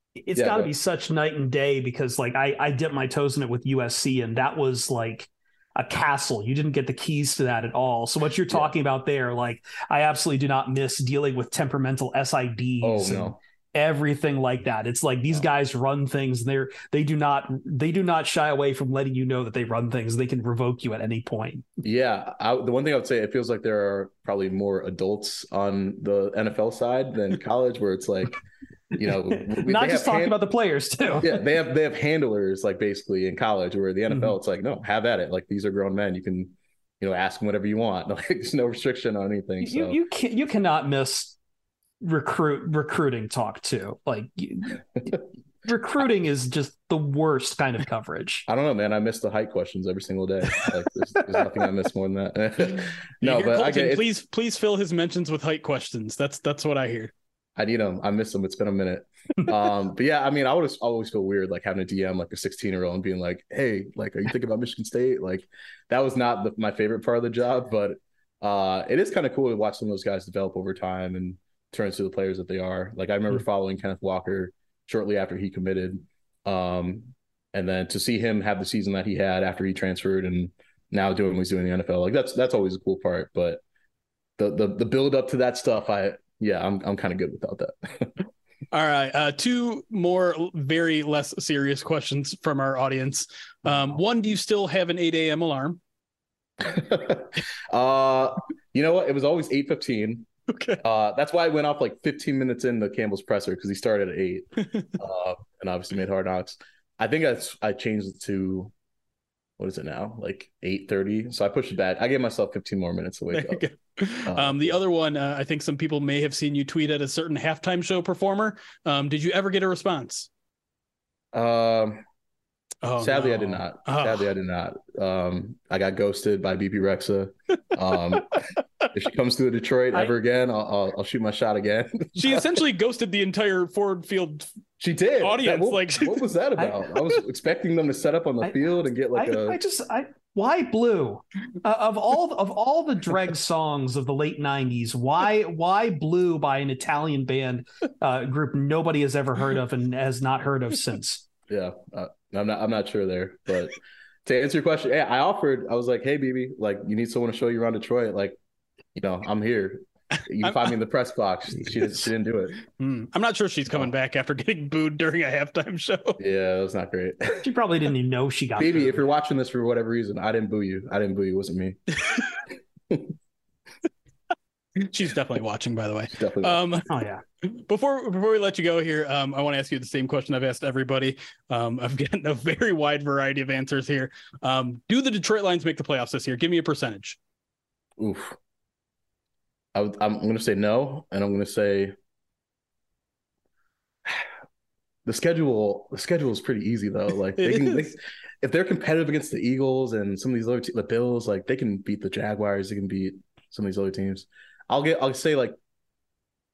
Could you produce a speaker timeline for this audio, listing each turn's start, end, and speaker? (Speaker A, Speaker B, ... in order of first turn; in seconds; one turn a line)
Speaker A: 0.2-21.7
Speaker B: 0.3-0.7
Speaker B: 12.8-13.4
Speaker B: 21.8-28.4
Speaker B: 29.0-30.4
Speaker A: 29.4-31.3
Speaker B: 31.2-40.0
Speaker A: 39.6-41.4
Speaker A: 42.0-44.8
Speaker A: 45.6-48.5
Speaker B: 48.5-54.0
Speaker C: 53.2-57.1
Speaker B: 57.5-83.6
Speaker B: 84.4-88.1
Speaker C: 88.7-95.8
Speaker B: 96.6-100.3
Speaker C: 100.5-100.8
Speaker B: 100.8-104.5
Speaker B: 105.0-108.7
Speaker B: 109.6-113.6
Speaker C: 113.3-120.3
Speaker B: 114.3-114.8
Speaker B: 121.3-122.0
Speaker C: 122.8-124.3
Speaker B: 123.0-128.4
Speaker B: 128.9-132.5
Speaker C: 132.1-134.5
Speaker B: 134.8-139.6
Speaker C: 135.2-136.3
Speaker A: 138.4-151.2
Speaker B: 151.5-158.4
Speaker B: 158.9-162.5
Speaker C: 160.4-160.7
Speaker C: 162.7-166.2
Speaker B: 166.2-167.4
Speaker A: 167.4-169.0
Speaker B: 168.6-172.2
Speaker C: 174.8-176.9
Speaker B: 176.1-176.7
Speaker A: 176.9-177.2
Speaker C: 177.4-187.2
Speaker B: 188.0-188.3
Speaker B: 189.7-191.9
Speaker B: 195.1-205.6
Speaker C: 197.4-197.9